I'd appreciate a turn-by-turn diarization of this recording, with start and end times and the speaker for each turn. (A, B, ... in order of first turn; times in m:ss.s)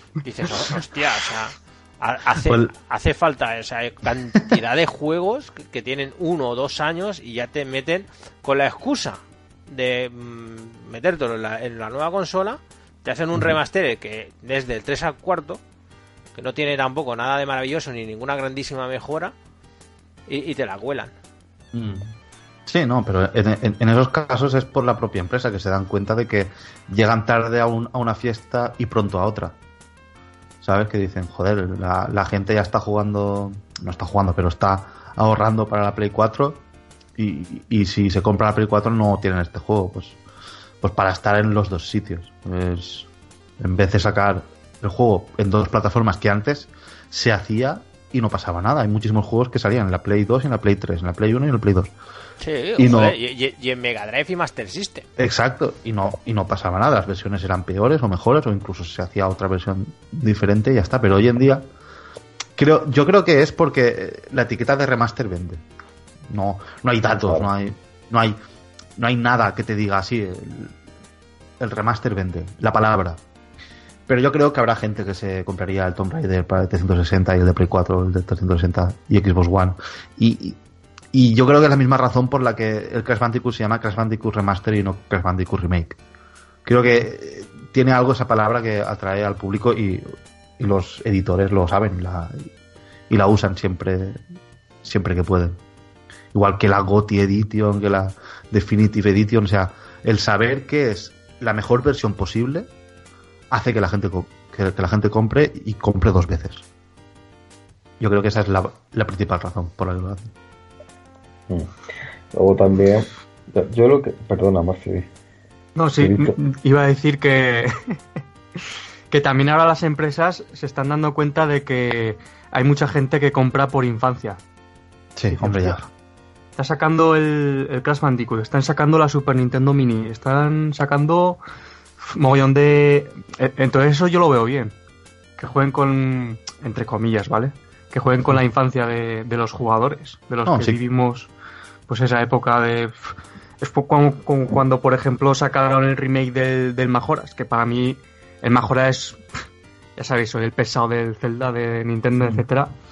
0:00.2-0:15.6 A
0:02.4-0:02.7 B
0:16.4-0:19.3 A
0:20.3-0:21.1 A
0:21.7-0:22.2 B
0:22.7-0:29.6 B
0:30.6-0:36.6 B
0:37.2-0:40.2 B
0:40.8-0:43.1 B
0:43.6-0:51.9 B
0:52.4-0:55.1 A
0:52.8-0:53.2 B
0:55.2-1:01.7 B
1:02.6-1:05.6 B
1:06.3-1:08.4 B
1:07.2-1:07.5 C
1:09.0-1:10.7 B
1:11.6-1:13.2 B
1:14.1-1:20.6 B
1:21.1-1:26.0 B
1:26.6-1:32.5 B
1:33.1-1:34.2 B
1:34.8-1:35.6 B
1:36.3-1:42.7 B
1:43.5-1:46.6 B
1:48.0-1:50.3 B
1:51.5-1:51.8 C
1:52.3-1:55.1 C
1:55.8-1:58.0 D
1:56.0-1:56.4 C
1:58.6-2:04.4 D
2:05.2-2:05.8 B
2:05.3-2:05.9 D
2:06.6-2:11.4 D
2:12.0-2:14.7 D
2:15.4-2:21.3 D
2:20.4-2:20.8 B
2:21.9-2:29.2 D
2:30.0-2:32.7 D